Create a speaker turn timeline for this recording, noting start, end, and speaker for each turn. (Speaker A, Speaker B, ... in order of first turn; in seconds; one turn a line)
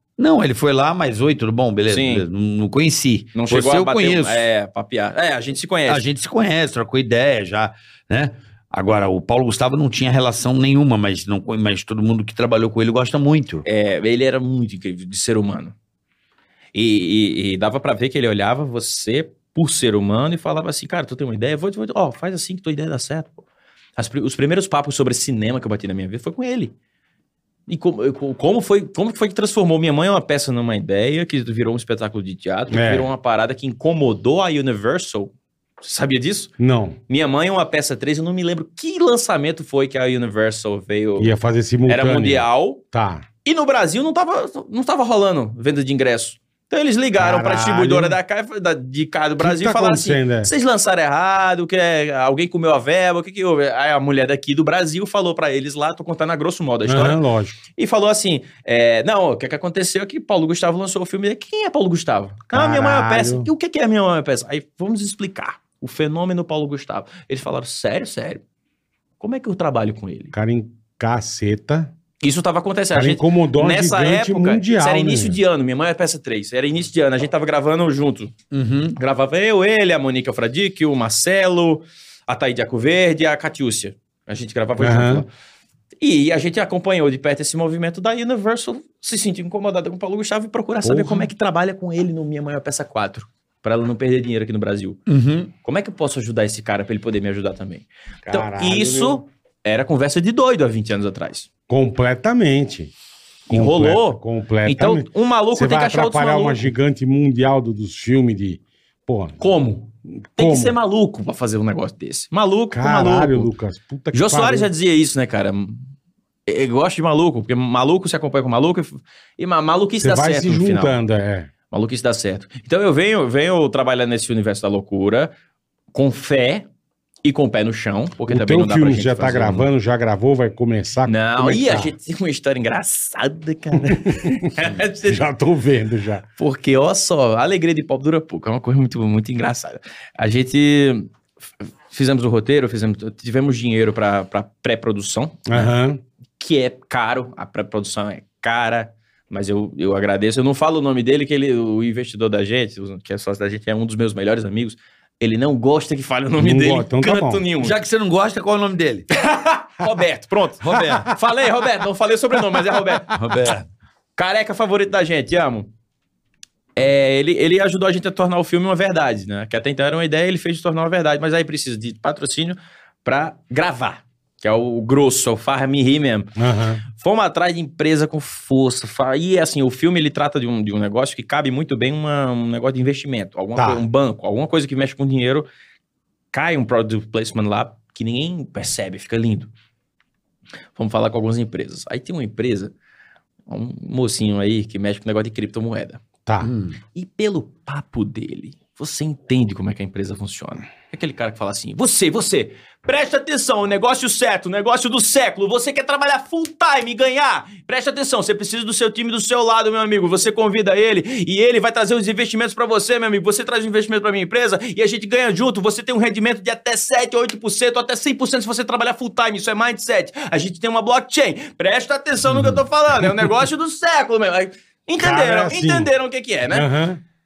Speaker A: 0.2-4.5
Speaker B: 1.9-2.2
Speaker B: 3.4-6.0
Speaker A: 5.9-13.7
Speaker B: 13.7-15.8
Speaker B: 16.7-23.4
Speaker B: 24.0-26.7
Speaker B: 27.7-36.5
Speaker C: 32.7-33.1
Speaker C: 36.6-37.0
Speaker B: 37.1-41.3
Speaker C: 41.2-43.2
Speaker B: 41.9-42.8
Speaker B: 43.5-57.2
Speaker C: 47.2-48.2
Speaker C: 49.4-50.5
Speaker C: 56.9-57.6
Speaker B: 57.8-68.4
Speaker C: 62.5-63.5
Speaker B: 69.2-70.3
Speaker C: 70.3-71.9
Speaker B: 72.2-78.3
Speaker C: 72.9-75.4
Speaker A: 78.5-79.0
Speaker B: 79.0-85.3
Speaker C: 84.8-85.2
Speaker B: 86.0-95.0
Speaker C: 90.8-91.3
Speaker A: 95.1-95.5
Speaker B: 95.6-101.5
Speaker C: 98.3-99.2
Speaker C: 101.7-102.9
Speaker B: 103.5-106.7
Speaker C: 103.5-109.4
Speaker B: 109.4-113.5
Speaker C: 110.3-110.8
Speaker C: 112.7-114.7
Speaker B: 114.1-115.8
Speaker B: 116.5-121.0
Speaker C: 120.0-121.5
Speaker B: 121.7-125.3
Speaker B: 125.9-126.7
Speaker B: 127.2-129.7
Speaker C: 128.3-131.9
Speaker B: 131.1-135.2
Speaker C: 133.9-134.4
Speaker C: 135.1-136.2
Speaker B: 136.4-141.1
Speaker B: 141.9-145.7
Speaker C: 145.5-146.0
Speaker B: 146.4-157.8
Speaker C: 156.4-157.4
Speaker A: 157.6-159.1
Speaker B: 159.1-163.1
Speaker A: 160.6-161.1
Speaker A: 163.1-163.7
Speaker B: 164.2-165.7
Speaker B: 166.8-176.3
Speaker C: 176.4-176.8
Speaker B: 176.9-185.5
Speaker C: 183.6-183.8
Speaker B: 186.3-189.5
Speaker B: 190.8-192.7
Speaker B: 193.5-196.0
Speaker C: 196.3-196.5
Speaker A: 196.4-196.8
Speaker B: 196.9-226.7
Speaker C: 225.0-225.9
Speaker C: 226.5-227.0